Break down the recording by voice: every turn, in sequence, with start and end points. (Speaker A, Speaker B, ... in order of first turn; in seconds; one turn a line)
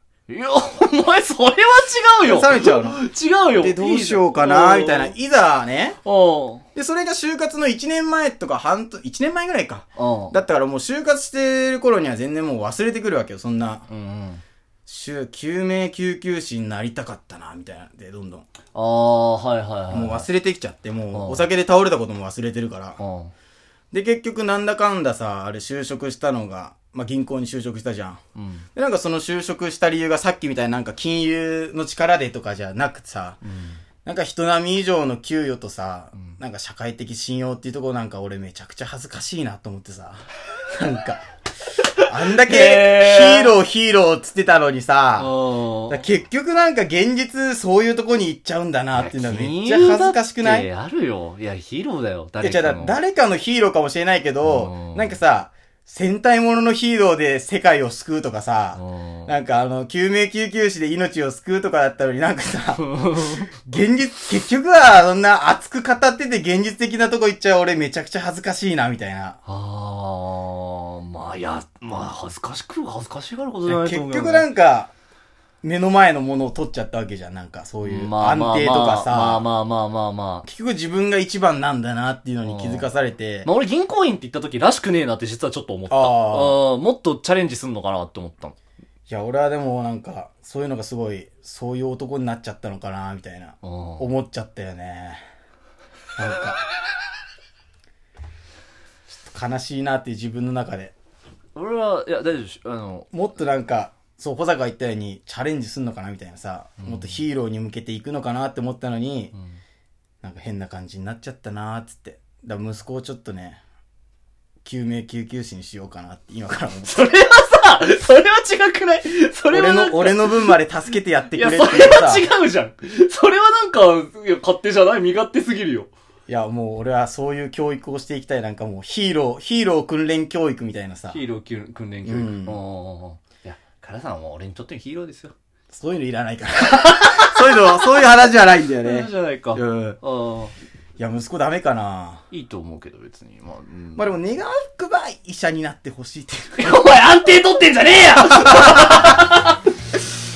Speaker A: 0.3-5.1
Speaker B: 2.2-6.0
Speaker A: 6.0-6.7
Speaker B: 6.8-13.9
Speaker A: 10.0-10.4
Speaker A: 13.9-14.4
Speaker B: 14.9-18.5
Speaker A: 18.8-20.3
Speaker B: 19.9-23.0
Speaker A: 21.1-21.5
Speaker A: 23.0-23.3
Speaker B: 23.9-28.2
Speaker A: 28.4-28.6
Speaker B: 28.8-33.4
Speaker A: 33.5-33.8
Speaker B: 34.0-41.2
Speaker A: 42.0-43.5
Speaker B: 42.1-45.3
Speaker A: 45.2-46.0
Speaker B: 45.9-50.7
Speaker A: 48.9-53.0
Speaker B: 52.4-69.4
Speaker A: 54.4-55.2
Speaker A: 58.8-59.3
Speaker A: 62.8-63.5
Speaker A: 69.5-74.5
Speaker B: 73.7-74.9
Speaker B: 75.6-79.5
Speaker A: 77.8-80.4
Speaker B: 80.4-83.5
Speaker A: 82.5-82.9
Speaker A: 83.5-88.5
Speaker B: 85.9-86.6
Speaker B: 89.1-95.2
Speaker A: 93.6-94.0
Speaker B: 96.2-96.6
Speaker B: 99.3-100.9
Speaker A: 101.6-103.1
Speaker B: 103.1-109.3
Speaker A: 106.8-107.2
Speaker B: 110.2-113.6
Speaker B: 114.6-117.1
Speaker A: 116.9-120.6
Speaker B: 119.5-122.3
Speaker A: 121.3-125.9
Speaker B: 126.3-131.2
Speaker A: 131.1-135.3
Speaker B: 132.0-132.6
Speaker B: 135.7-140.0
Speaker A: 136.7-138.1
Speaker A: 138.8-140.6
Speaker B: 141.0-142.2
Speaker A: 142.3-144.0
Speaker B: 144.0-146.8
Speaker A: 146.6-149.6
Speaker B: 148.3-149.1